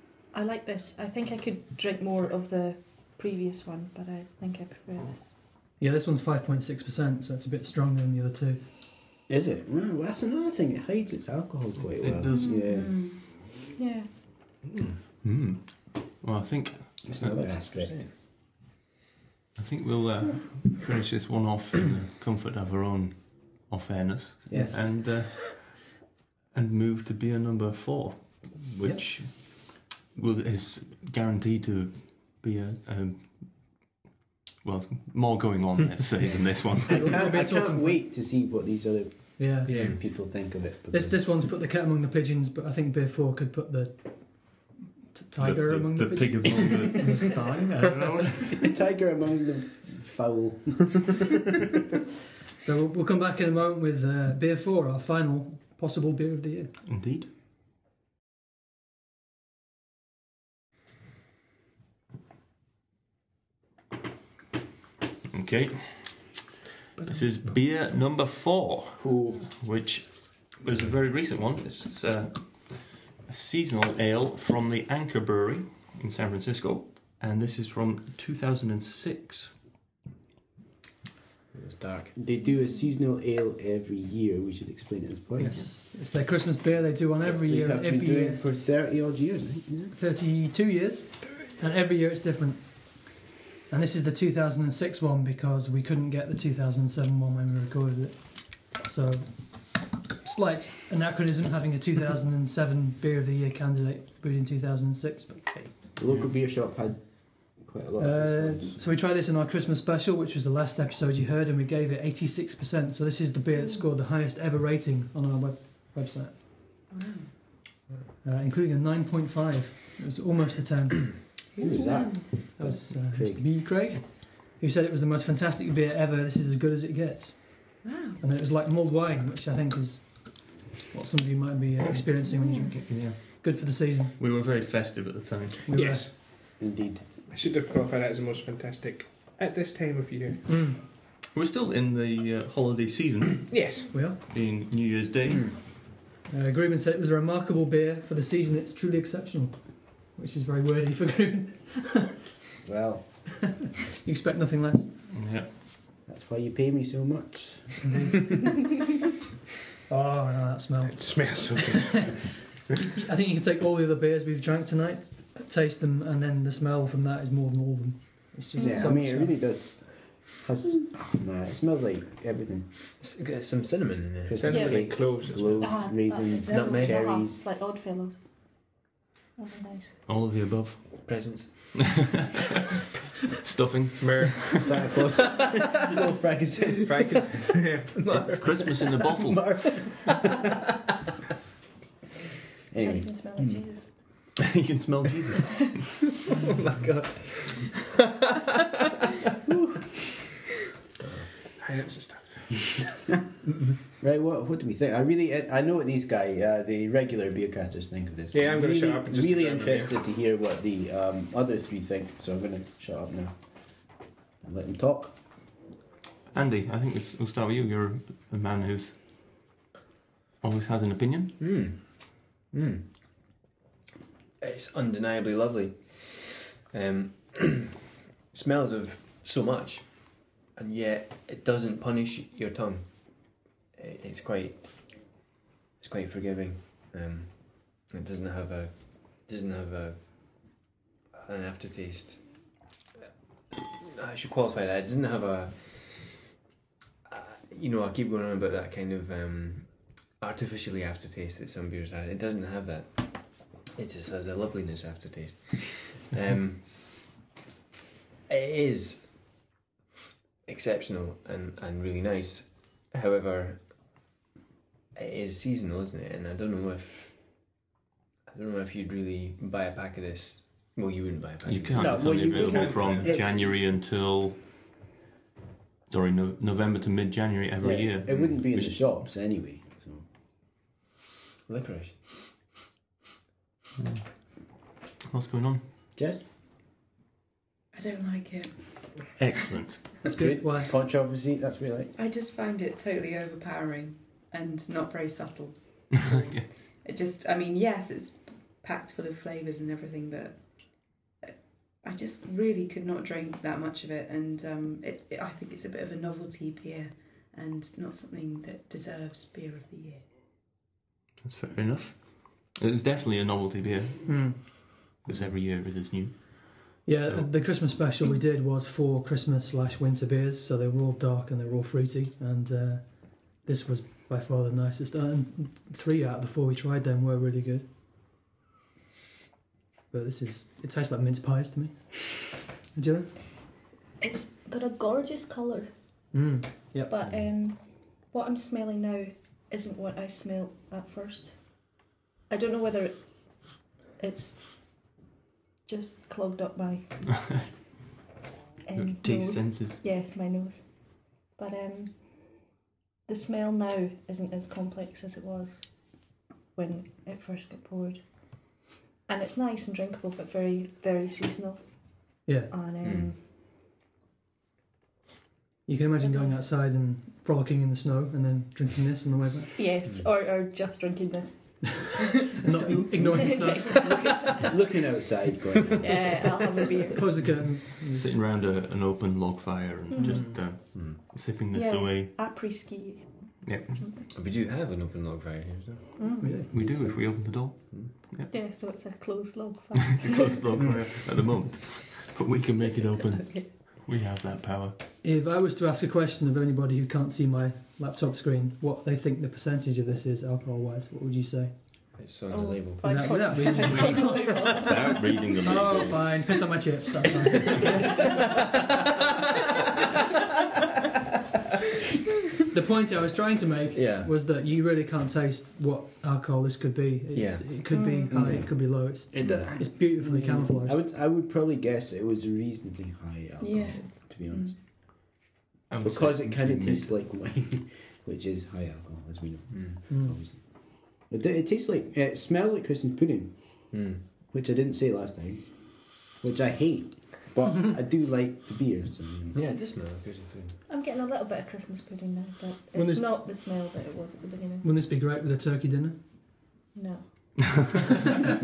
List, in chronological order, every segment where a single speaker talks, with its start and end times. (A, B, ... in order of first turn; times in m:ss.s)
0:00.3-0:05.4 A
0:05.8-0:08.7 B
0:09.3-0:13.0 C
0:11.9-0:12.6 D
0:12.4-0:12.7 A
0:12.4-0:13.3 E
0:13.8-0:14.1 A
0:15.0-0:17.5 D
0:17.0-0:18.1 C
0:17.2-0:18.1 F
0:19.5-0:26.0 D
0:24.4-0:25.1 C
0:24.5-0:24.8 B
0:26.5-0:33.9 D
0:34.6-0:37.2 D
0:36.2-0:41.3 C
0:36.9-0:38.0 B
0:39.4-0:40.3 B
0:39.6-0:40.0 G
0:40.9-0:48.5 B
0:45.4-0:48.5 D
0:48.6-0:51.1 C
0:52.6-0:56.7 B
0:56.8-0:57.3 D
1:05.3-1:06.4 D
1:07.0-1:19.6 D
1:09.0-1:09.4 C
1:21.5-1:22.1 F
1:22.1-1:25.7 C
1:25.4-1:28.4 B
1:27.2-1:29.9 C
1:29.9-1:45.7 B
1:46.0-1:48.8 C
1:46.0-1:46.3 D
1:48.0-1:56.3 B
1:56.9-1:57.3 E
1:58.2-2:01.5 B
2:01.5-2:02.2 E
2:01.6-2:03.5 C
2:02.4-2:14.1 B
2:07.8-2:08.2 E
2:12.8-2:13.4 D
2:14.2-2:15.7 D
2:15.7-2:16.0 B
2:15.7-2:16.6 G
2:16.6-2:17.0 C
2:17.3-2:20.5 G
2:20.5-2:20.8 B
2:21.2-2:25.6 D
2:23.5-2:24.0 G
2:23.9-2:24.2 B
2:26.3-2:32.2 B
2:32.6-2:33.5 C
2:34.0-2:34.9 B
2:35.1-2:35.5 D
2:36.0-2:37.8 C
2:37.8-2:38.7 B
2:39.9-2:42.1 B
2:40.8-2:42.3 G
2:43.0-2:49.4 B
2:48.5-2:48.9 A
2:48.6-2:52.7 C
2:53.0-2:54.6 F
2:54.2-2:57.4 C
2:54.4-2:55.8 G
2:54.5-2:54.9 A
2:55.6-2:58.2 A
2:56.4-2:57.0 F
2:59.4-3:00.0 A
3:00.0-3:02.3 D
3:01.0-3:01.8 F
3:03.4-3:04.8 D
3:04.0-3:04.5 G
3:04.6-3:07.1 C
3:06.8-3:08.1 G
3:08.0-3:09.0 F
3:08.1-3:09.6 D
3:09.0-3:10.1 C
3:12.7-3:13.1 C
3:12.8-3:13.9 A
3:14.3-3:15.9 D
3:16.4-3:17.8 F
3:21.6-3:22.7 G
3:24.0-3:35.2 C
3:28.3-3:29.9 G
3:36.3-3:39.2 D
3:40.4-3:41.4 D
3:41.4-3:43.0 F
3:44.4-3:47.7 F
3:48.3-3:55.2 F
3:55.8-4:00.6 F
4:01.1-4:02.5 F
4:03.6-4:06.2 F
4:07.0-4:17.1 F
4:18.3-4:19.4 F
4:20.4-4:23.9 F
4:24.9-4:27.4 F
4:28.3-4:32.4 F
4:31.4-4:34.4 D
4:31.7-4:33.5 C
4:32.4-4:33.2 G
4:35.9-4:39.0 D
4:37.6-4:40.0 C
4:38.1-4:38.3 F
4:41.5-4:42.3 F
4:43.8-4:44.5 D
4:45.0-4:45.6 D
4:46.0-4:46.2 C
4:47.7-4:49.1 E
4:49.2-4:50.0 D
4:50.0-4:50.7 B
4:50.1-4:51.9 C
4:51.9-5:10.0 E
4:55.9-4:56.5 D
5:11.2-5:17.4 D
5:14.0-5:14.4 B
5:16.8-5:27.7 B
5:29.9-5:33.1 B
5:34.0-5:35.7 A
5:36.1-5:36.9 B
5:36.9-5:44.7 A
5:45.6-5:47.0 A
5:48.6-5:52.5 A
5:48.7-5:49.8 D
5:53.0-5:58.1 A
5:59.0-6:03.2 A
6:02.2-6:02.5 B
6:02.8-6:03.1 F
6:05.6-6:09.5 B
6:06.0-6:06.4 A
6:09.6-6:12.1 A
6:09.8-6:10.1 F
6:12.3-6:14.1 B
6:13.0-6:14.5 A
6:13.5-6:16.3 C
6:15.8-6:17.1 A
6:17.0-6:18.1 B
6:17.9-6:22.2 D
6:19.9-6:20.2 A
6:20.0-6:20.4 B
6:20.7-6:21.0 F
6:21.5-6:24.0 A
6:23.4-6:23.8 D
6:24.1-6:26.1 F
6:26.0-6:26.4 A
6:26.2-6:26.5 B
6:26.5-6:28.3 D
6:26.5-6:27.0 C
6:28.3-6:30.4 A
6:29.8-6:34.8 D
6:32.9-6:33.6 A
6:35.0-6:41.5 B
6:42.0-6:43.3 F
6:42.3-6:45.3 A
6:42.8-6:44.5 B
6:43.6-6:46.4 D
6:45.4-6:48.0 B
6:52.5-7:00.8 B
6:53.7-6:54.1 F
6:57.1-6:57.6 F
6:57.7-6:58.2 A
6:58.1-7:04.6 C
6:59.2-6:59.4 F
7:03.4-7:03.9 A
7:05.7-7:06.9 D
7:05.8-7:13.8 C
7:09.5-7:09.8 F
7:09.9-7:10.2 B
7:13.7-7:14.0 F
7:14.3-7:19.4 C
7:19.3-7:20.6 F
7:20.7-7:24.7 A
7:22.7-7:23.1 B
7:24.6-7:26.0 B
7:26.7-7:27.3 A
7:27.4-7:27.7 D